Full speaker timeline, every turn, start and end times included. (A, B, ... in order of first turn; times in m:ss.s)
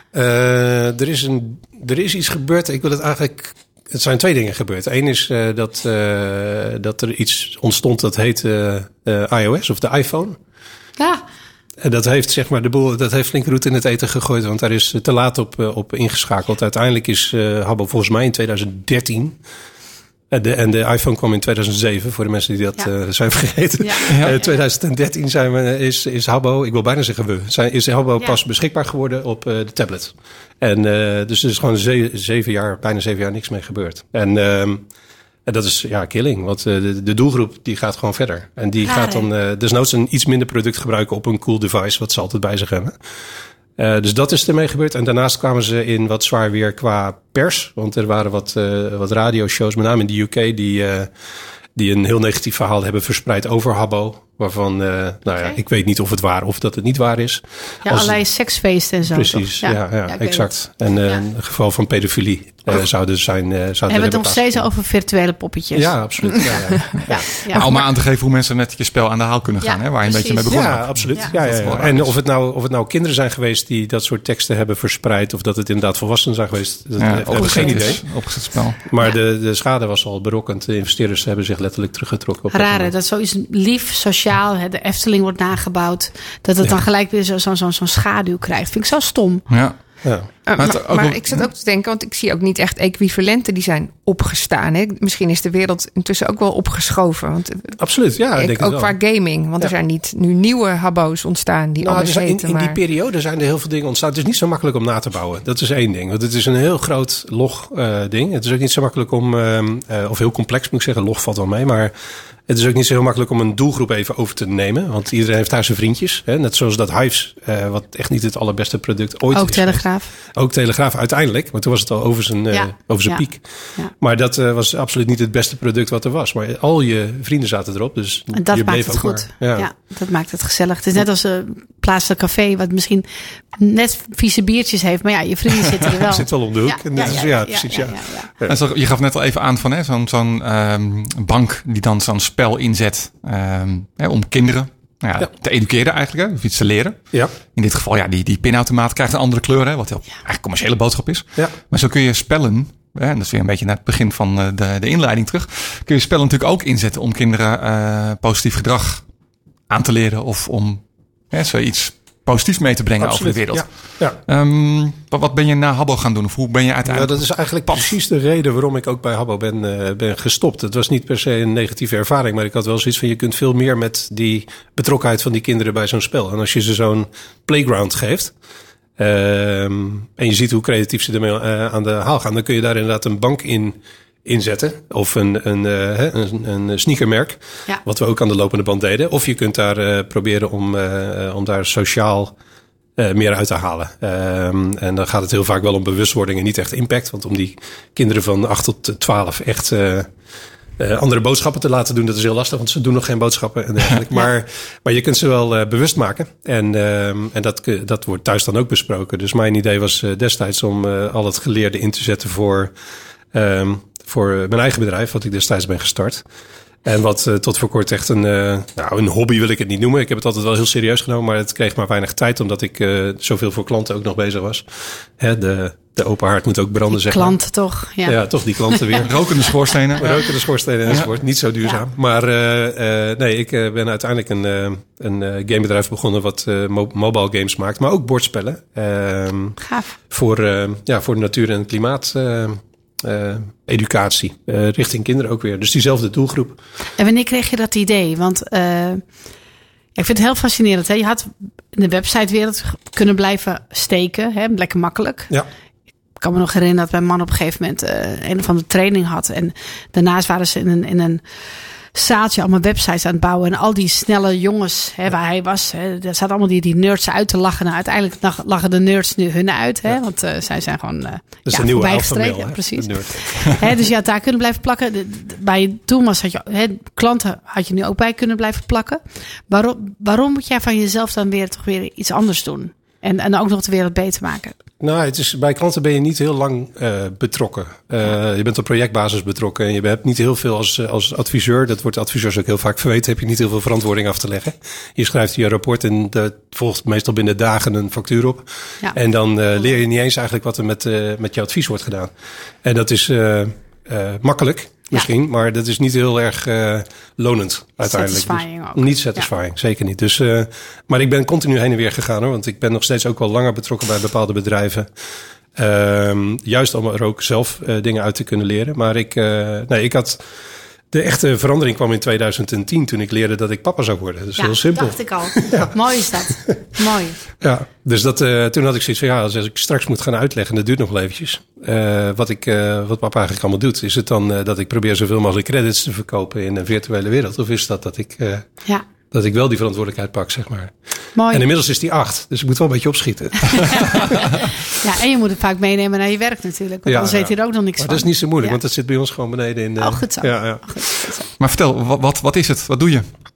0:00.1-0:10.4 A
0:11.0-0:11.2 B
0:11.8-0:19.4 A
0:20.3-0:34.9 A
0:23.8-0:24.6 B
0:24.1-0:24.4 C
0:35.5-0:43.0 A
0:38.8-0:39.3 B
0:43.8-0:51.1 A
0:51.8-0:58.2 A
0:55.3-0:55.6 B
0:57.8-1:00.5 B
0:59.1-1:04.7 A
1:03.9-1:06.5 B
1:05.7-1:07.3 A
1:07.1-1:07.7 B
1:07.5-1:12.2 C
1:07.5-1:07.8 D
1:09.6-1:11.3 B
1:10.5-1:18.1 A
1:17.0-1:18.8 C
1:17.4-1:17.9 B
1:18.8-1:22.9 A
1:22.5-1:29.4 B
1:29.5-1:29.8 C
1:30.5-1:37.8 D
1:30.6-1:31.5 C
1:37.8-1:39.0 A
1:38.4-1:42.8 D
1:41.8-1:51.9 A
1:52.5-2:09.7 A
1:59.3-2:00.1 B
2:02.5-2:03.9 B
2:08.3-2:18.3 B
2:16.0-2:18.6 A
2:18.5-2:39.1 C
2:39.7-2:47.9 C
2:43.0-2:44.2 A
2:46.8-2:58.3 A
2:59.0-3:12.4 A
3:13.0-3:20.1 A
3:20.8-3:32.7 A
3:33.3-3:36.2 A
3:36.8-3:47.4 A
3:46.9-3:49.0 B
3:48.0-3:49.2 A
3:49.0-3:51.1 C
3:50.0-3:59.6 A
3:59.6-4:00.0 B
4:00.1-4:06.6 A
4:07.0-4:09.0 B
4:10.0-4:15.3 B
4:16.2-4:21.2 B
4:21.9-4:44.6 B
4:31.5-4:33.6 A
4:44.8-5:14.9 A
5:07.8-5:09.3 B
5:15.6-5:20.2 A
5:20.9-5:26.7 A
5:24.4-5:26.4 B
5:26.8-5:27.2 D
5:27.4-5:38.5 A
5:39.1-5:40.8 A
5:41.2-5:41.5 B
5:41.3-5:44.2 A
5:43.6-5:44.0 B
5:44.7-5:48.6 B
5:46.8-5:51.1 A
5:49.8-5:51.3 B
5:51.4-5:53.1 C